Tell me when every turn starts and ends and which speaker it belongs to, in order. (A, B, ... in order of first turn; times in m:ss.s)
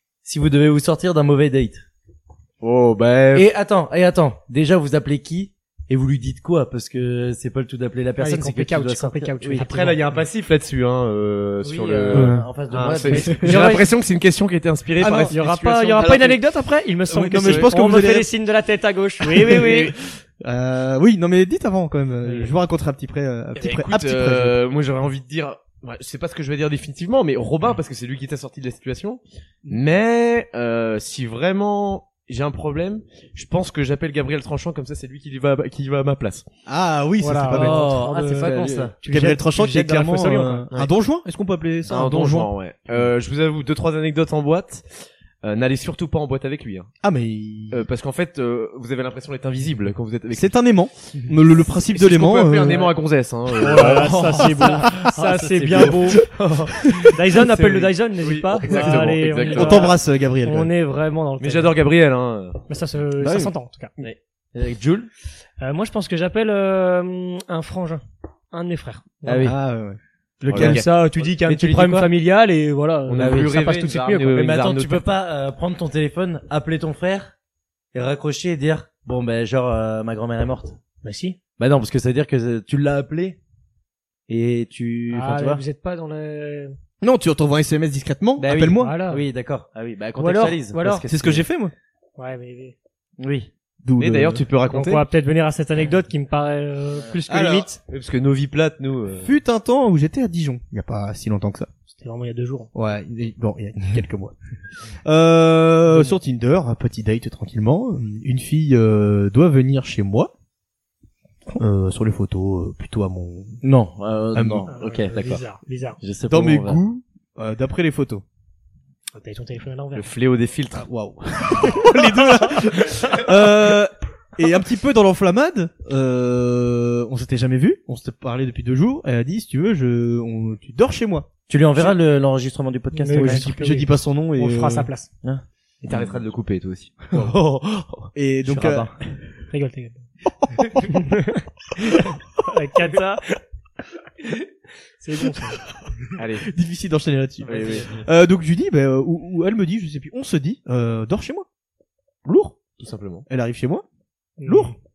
0:00.2-0:01.8 A
0:02.6-0:03.5 B
0:03.3-0:09.6 A
0:08.2-0:10.0 C
0:09.4-0:16.4 B
0:11.6-0:13.6 A
0:12.1-0:12.4 D
0:13.1-0:13.8 C
0:15.0-0:15.3 D
0:15.3-0:20.0 C
0:17.1-0:18.3 D
0:17.4-0:17.7 B
0:19.2-0:24.6 D
0:19.4-0:19.9 B
0:22.2-0:22.5 C
0:23.6-0:36.4 B
0:36.6-0:37.9 D
0:37.2-0:40.7 C
0:37.5-0:38.9 A
0:38.4-0:38.9 B
0:39.0-0:42.5 D
0:41.9-0:46.9 B
0:47.0-0:47.8 D
0:47.7-0:50.6 B
0:50.3-0:52.9 D
0:51.9-0:54.2 B
0:53.6-0:56.3 C
0:53.8-0:56.4 A
0:54.4-0:55.1 D
0:55.7-0:57.2 D
0:57.0-1:01.7 C
0:57.3-0:59.9 B
0:58.7-1:00.7 D
1:01.4-1:02.6 B
1:02.7-1:03.9 C
1:03.2-1:03.5 D
1:04.5-1:05.1 A
1:05.6-1:09.5 C
1:09.2-1:09.6 A
1:09.4-1:10.8 D
1:10.5-1:11.2 B
1:10.6-1:14.4 C
1:11.4-1:12.1 A
1:13.1-1:15.0 B
1:13.2-1:13.6 A
1:14.3-1:17.3 A
1:17.9-1:20.8 A
1:21.0-1:21.4 C
1:21.6-1:23.4 A
1:24.3-1:25.6 A
1:25.1-1:26.8 C
1:27.0-1:29.0 D
1:28.4-1:31.4 A
1:28.8-1:29.2 C
1:30.2-1:31.0 C
1:31.1-1:31.7 D
1:32.2-1:32.7 C
1:33.2-1:33.5 A
1:33.8-1:34.4 D
1:34.0-1:35.0 B
1:34.7-1:37.8 C
1:37.3-1:37.7 D
1:37.9-1:39.3 B
1:39.2-1:41.7 D
1:41.9-1:42.7 C
1:42.7-1:44.3 D
1:45.0-1:50.3 D
1:51.6-1:53.6 D
1:53.6-1:55.4 A
1:54.3-1:54.7 D
1:54.7-1:56.0 C
1:56.0-1:56.8 A
1:56.3-1:58.2 D
1:59.1-2:00.1 C
1:59.9-2:00.9 B
2:00.7-2:11.9 D
2:01.7-2:02.7 C
2:11.5-2:13.5 A
2:12.9-2:15.1 C
2:13.1-2:14.9 D
2:15.8-2:18.1 B
2:18.1-2:18.9 D
2:18.4-2:18.9 A
2:19.5-2:20.0 C
2:20.4-2:20.7 D
2:20.7-2:23.4 C
2:25.0-2:25.6 C
2:25.2-2:31.5 D
2:26.2-2:26.5 B
2:27.4-2:28.0 A
2:27.4-2:28.0 B
2:32.2-2:32.6 D
2:32.8-2:33.2 B
2:33.3-2:33.8 D
2:34.4-2:34.7 C
2:34.4-2:34.7 D